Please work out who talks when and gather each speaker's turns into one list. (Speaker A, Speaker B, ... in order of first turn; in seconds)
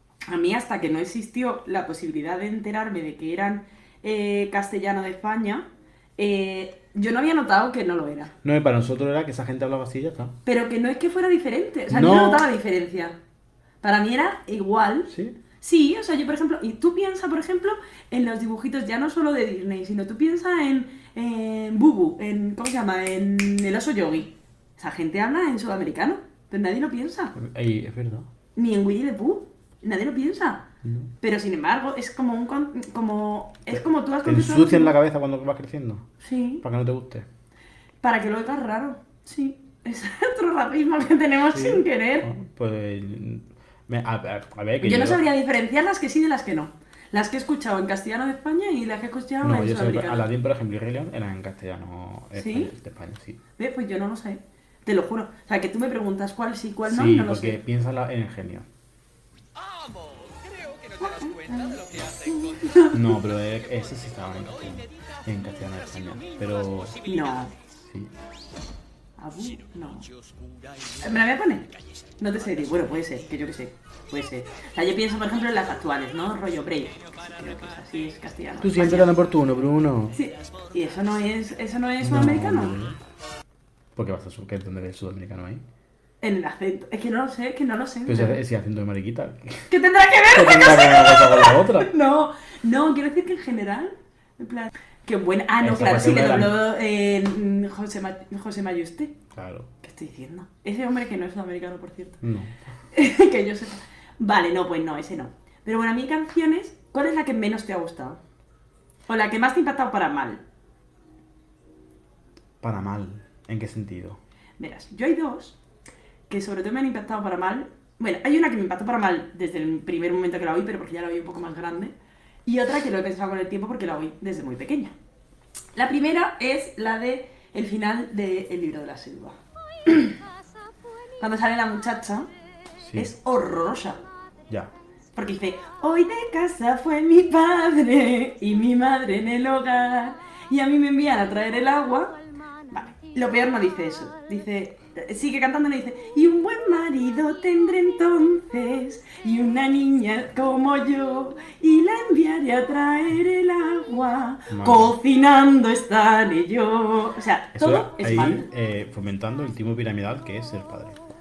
Speaker A: 0.3-8.3, 10.4-13.2, 13.8-27.4, 28.6-30.7, 31.2-34.9, 36.2-36.6, 38.0-42.3, 44.8-50.2, 52.4-52.7, 53.6-57.6, 61.0-63.1, 67.0-67.5, 69.2-70.1, 70.9-79.1, 80.1-82.8, 86.2-88.4, 89.7-99.1, 99.8-102.2, 102.9-108.2, 109.1-110.4, 114.6-115.6, 116.3-121.9, 122.5-124.9, 125.8-130.2, 131.2-132.3, 132.9-134.1, 135.2-158.5
Speaker B: 8.4-10.4, 11.9-12.5, 15.1-15.4, 27.4-28.3, 30.8-31.1, 33.7-36.1, 36.6-37.3, 41.5-45.2, 49.4-53.4, 56.9-58.7, 62.9-67.1, 67.7-68.1, 78.6-80.2, 82.0-83.0, 84.0-85.6, 88.1-89.7, 90.3-91.9, 95.6-96.6, 99.3-99.7, 102.2-102.5, 112.6-114.2, 132.8-133.1, 154.5-154.9, 157.6-161.0